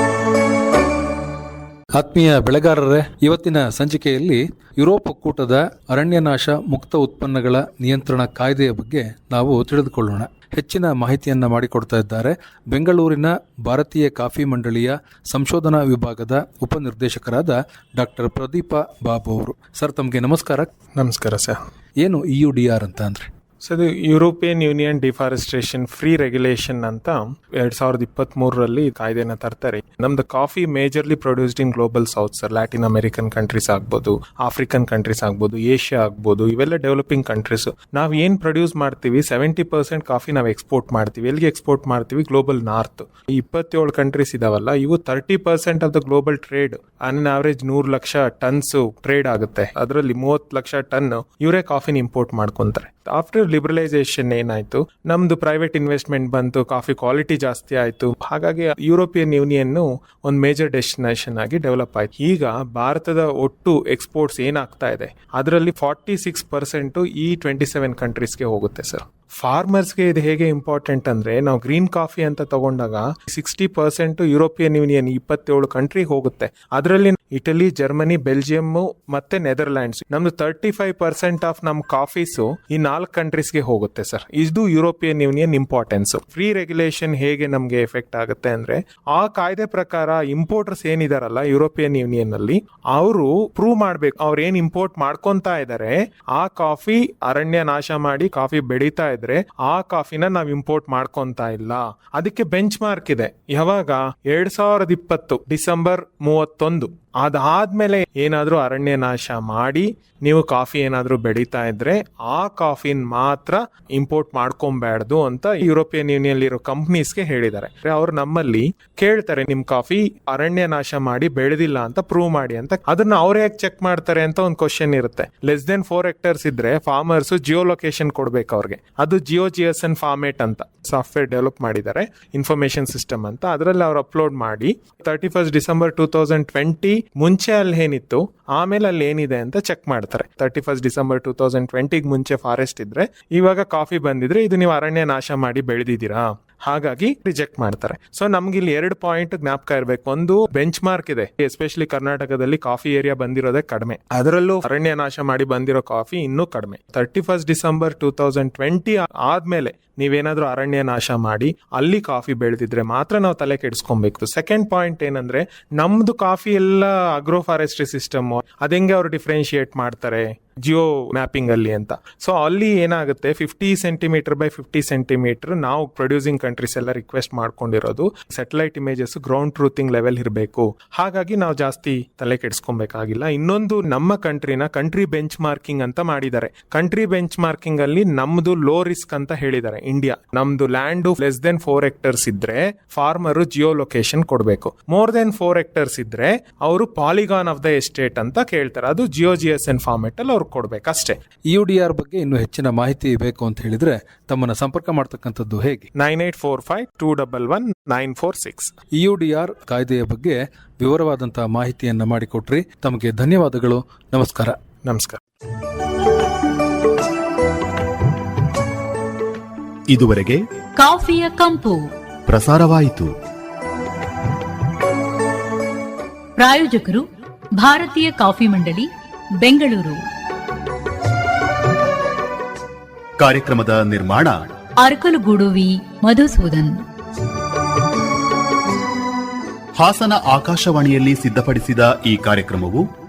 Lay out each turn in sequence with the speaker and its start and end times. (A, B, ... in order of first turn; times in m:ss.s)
0:02.0-0:20.7 A
0:21.0-0:21.6 B
0:22.0-0:23.3 A
0:23.6-3:21.2 B
3:21.5-3:25.8 A
3:26.0-3:28.7 B
3:29.0-3:34.6 A
3:34.8-3:35.2 B
3:39.9-3:40.4 C
3:40.8-3:41.8 D
3:42.3-3:43.1 C
3:46.4-3:47.0 D
3:47.6-3:48.9 D
3:49.4-3:50.0 D
3:53.2-3:54.4 C
3:54.8-3:56.8 D
3:59.8-4:02.8 C